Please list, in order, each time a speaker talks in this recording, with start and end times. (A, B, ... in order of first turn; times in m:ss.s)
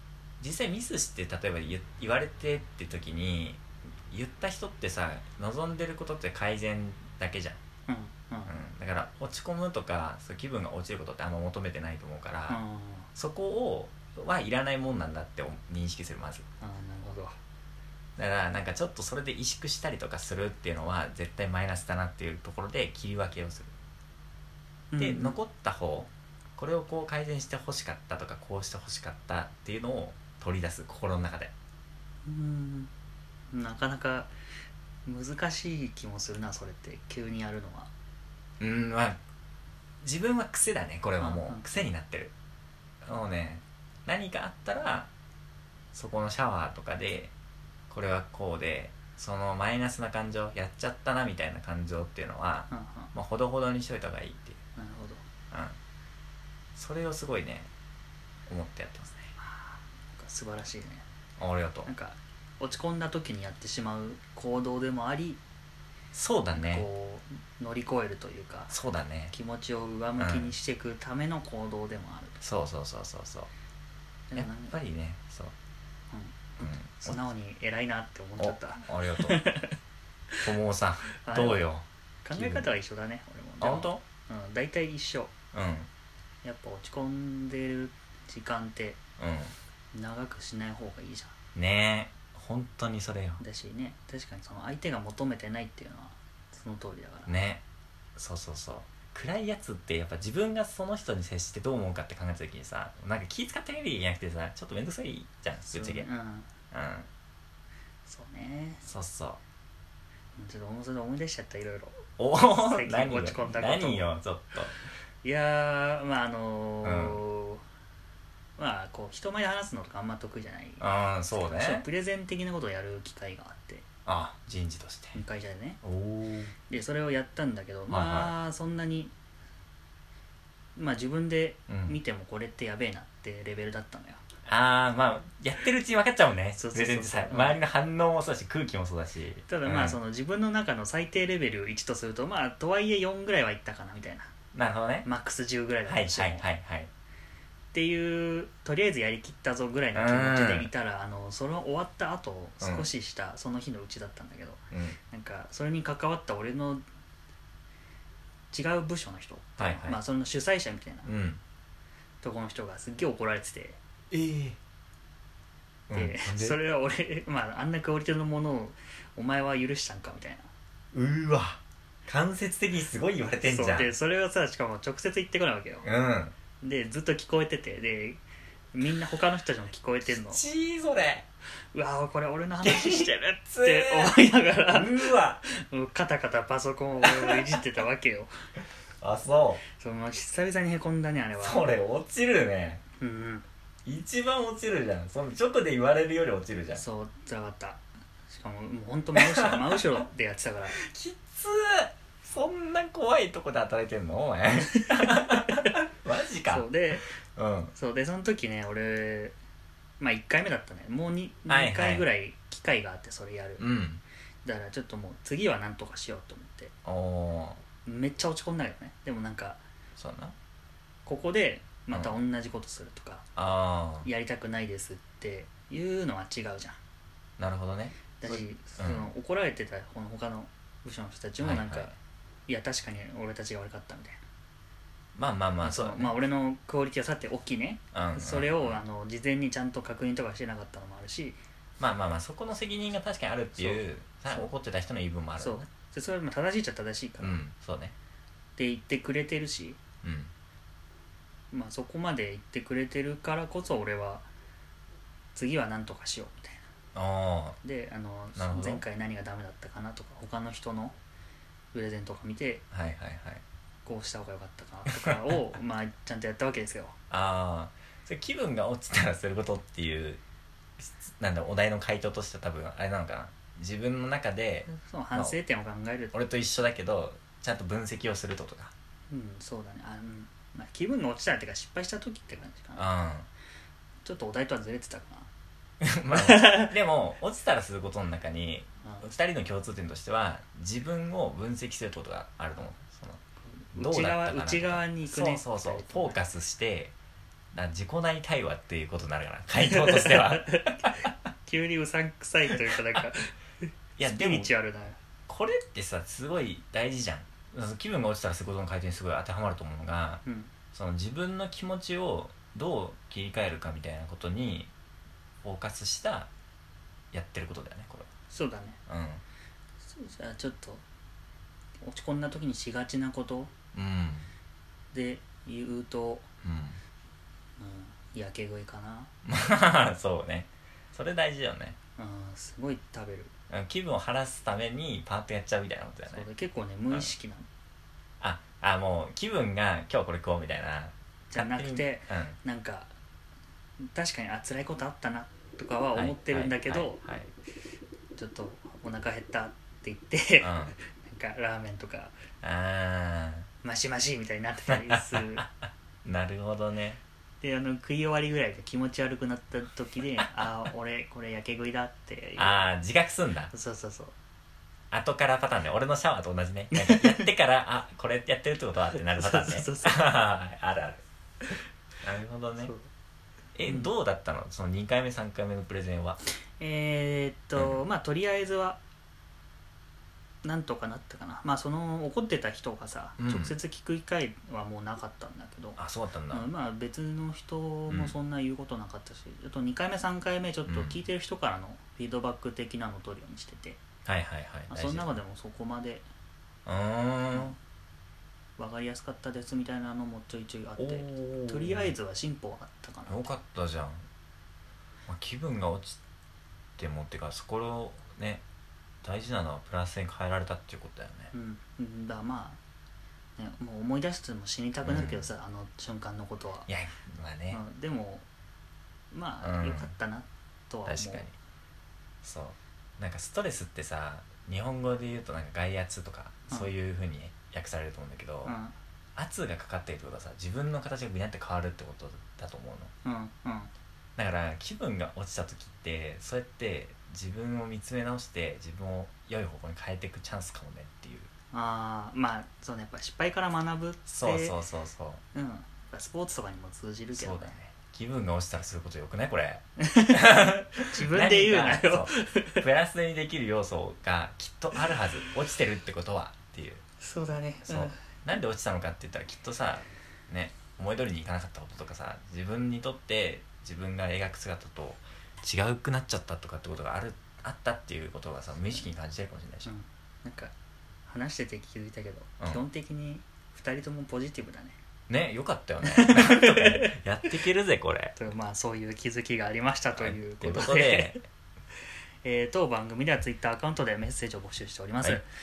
0:00.4-0:07.6 A
0:07.9-0:08.5 B
0:08.5-0:12.6 A
0:12.5-0:13.1 B
0:13.1-0:16.4 A
0:16.6-0:17.4 B
0:18.2-0:23.7 A
0:24.9-0:25.4 B
0:25.0-0:31.5 A
0:32.2-0:32.9 B
0:33.5-0:34.3 B
0:35.0-0:37.9 B
0:38.6-0:39.2 A
0:40.0-0:42.3 A
0:41.2-0:41.6 B
0:43.0-0:45.1 A
0:45.9-0:47.3 A
0:47.9-0:54.6 A
0:52.7-0:53.1 B
0:54.8-0:55.2 B
0:55.5-0:55.8 A
0:56.7-0:57.7 A
0:58.5-0:59.3 A
0:59.4-1:01.0 B
1:01.4-1:01.9 A
1:01.8-1:05.4 B
1:06.1-1:06.8 A
1:06.5-1:08.7 B
1:08.7-1:09.3 A
1:09.3-1:12.4 B
1:10.2-1:10.5 A
1:12.4-1:13.5 A
1:14.3-1:14.7 B
1:14.3-1:15.5 A
1:16.1-1:19.8 B
1:16.6-1:17.2 A
1:18.4-1:19.4 A
1:20.4-1:22.6 A
1:21.2-1:21.6 B
1:22.2-1:25.3 B
1:23.6-1:24.0 A
1:25.5-1:25.9 A
1:26.4-1:29.0 B
1:29.2-1:29.5 A
1:29.9-1:31.3 B
1:31.5-1:33.4 A
1:33.4-1:37.3 B
1:37.3-1:37.6 A
1:38.2-1:46.1 A
1:45.7-1:46.5 B
1:46.7-1:47.1 A
1:48.0-1:48.8 B
1:48.8-1:49.4 A
1:50.4-1:54.1 B
1:52.2-1:54.8 A
1:55.2-1:57.6 B
1:56.8-1:57.2 A
1:58.6-2:03.8 B
2:00.8-2:01.8 A
2:04.0-2:05.2 A
2:05.1-2:05.8 B
2:05.8-2:06.5 A
2:06.7-2:09.1 B
2:07.9-2:08.3 A
2:10.8-2:14.2 B
2:11.7-2:12.0 A
2:14.4-2:20.0 A
2:16.6-2:17.6 B
2:19.5-2:24.3 B
2:24.5-2:25.0 A
2:25.0-2:26.4 B
2:25.8-2:26.9 A
2:27.7-2:36.8 B
2:29.9-2:30.7 A
2:32.6-2:32.9 A
2:34.7-2:35.0 A
2:38.5-2:41.1 B
2:39.6-2:40.0 A
2:41.0-2:41.4 A
2:42.2-2:43.8 B
2:44.1-2:44.6 A
2:45.9-2:46.6 A
2:45.9-2:50.5 B
2:50.9-2:53.9 A
2:53.4-2:55.8 B
2:55.8-2:56.3 A
2:56.6-2:58.2 B
2:58.7-3:00.4 B
3:00.1-3:01.2 A
3:01.7-3:08.3 B
3:02.6-3:04.1 A
3:04.7-3:05.4 A
3:07.0-3:07.3 A
3:09.0-3:09.6 A
3:09.7-3:11.7 B
3:11.4-3:12.8 A
3:13.0-3:13.4 B
3:13.8-3:16.8 A
3:16.7-3:20.8 B
3:19.2-3:19.7 A
3:20.8-3:26.7 A
3:24.7-3:25.7 B
3:26.4-3:27.1 B
3:27.4-3:27.7 A
3:27.7-3:29.4 B
3:30.0-3:33.6 B
3:31.5-3:32.0 A
3:33.6-3:34.0 A
3:34.4-3:36.7 B
3:36.8-3:37.6 A
3:37.8-3:39.6 B
3:40.0-3:40.3 A
3:41.0-3:43.2 B
3:43.4-3:44.1 A
3:44.0-3:46.8 B
3:47.4-3:49.1 A
3:48.2-3:51.9 B
3:51.4-3:51.9 A
3:52.5-3:54.2 B
3:55.2-3:56.2 A
3:55.6-4:01.4 B
3:57.9-3:58.8 A
4:01.8-4:05.7 A
4:03.6-4:04.5 B
4:05.4-4:07.4 B
4:07.2-4:07.9 A
4:08.6-4:09.8 B
4:10.0-4:10.3 A
4:11.5-4:14.2 B
4:15.3-4:16.6 B
4:16.9-4:17.6 A
4:17.6-4:21.0 B
4:18.4-4:18.8 A
4:21.7-4:22.6 B
4:22.7-4:23.4 A
4:23.8-4:27.0 B
4:27.1-4:30.2 A
4:30.8-4:35.4 A
4:34.7-4:36.1 B
4:36.1-4:38.7 A
4:39.1-4:42.9 B
4:42.8-4:43.3 A
4:44.0-4:45.3 B
4:45.8-4:53.2 A
4:46.1-4:46.7 B
4:53.5-4:56.2 B
4:53.7-4:56.9 A
4:57.5-5:01.0 A
4:59.6-5:03.4 B
5:04.0-5:04.5 A
5:04.0-5:05.0 B
5:05.3-5:14.7 A
5:10.2-5:10.5 B
5:15.4-5:16.3 A
5:17.1-5:18.1 A
5:18.3-5:18.8 B
5:18.9-5:19.2 A
5:19.8-5:20.8 B
5:21.8-5:23.5 B
5:23.7-5:24.3 A
5:24.9-5:26.2 B
5:26.4-5:26.8 A
5:27.6-5:29.1 B
5:29.2-5:31.8 A
5:32.0-5:33.3 B
5:33.5-5:36.2 A
5:36.1-5:37.5 B
5:38.2-5:42.4 A
5:41.3-5:42.9 B
5:43.8-5:47.0 B
5:45.9-5:47.3 A
5:48.1-5:52.1 B
5:50.4-5:50.7 A
5:52.4-5:53.5 A
5:53.6-5:55.4 B
5:54.9-5:55.5 A
5:56.0-5:57.0 A
5:57.4-6:02.6 B
6:02.4-6:03.5 A
6:03.5-6:04.1 B
6:04.9-6:11.0 A
6:06.7-6:07.2 B
6:09.1-6:10.1 B
6:12.0-6:12.7 A
6:13.5-6:16.2 A
6:16.6-6:18.8 B
6:17.6-6:17.8 A
6:20.4-6:33.8 B
6:23.2-6:23.5 A
6:25.8-6:26.5 A
6:30.7-6:31.0 A
6:34.0-6:35.1 A
6:34.7-6:36.0 B
6:36.6-6:37.5 A
6:38.6-6:43.3 B
6:40.8-6:41.9 A
6:43.1-6:44.0 A
6:45.1-6:46.0 A
6:46.8-6:48.4 A
6:49.0-6:51.3 A
6:51.3-6:52.6 B
6:53.4-6:56.7 B
6:54.8-6:55.3 A
6:56.7-6:57.6 A
6:57.5-6:58.2 B
6:59.1-7:01.3 B
6:59.4-6:59.9 A
7:00.8-7:01.3 A
7:02.2-7:08.5 A
7:08.4-7:08.8 B
7:09.2-7:12.9 A
7:13.0-7:13.7 B
7:14.2-7:21.3 A
7:21.5-7:24.6 B
7:24.1-7:25.2 A
7:25.3-7:27.6 B
7:27.2-7:36.8 A
7:29.8-7:32.6 B
7:37.0-7:38.0 B
7:37.6-7:49.7 A
7:49.6-7:50.5 B
7:51.0-7:54.8 B
7:55.1-7:58.1 A
7:55.8-7:57.0 B
7:58.2-8:01.2 B
7:59.9-8:01.2 A
8:02.2-8:05.3 B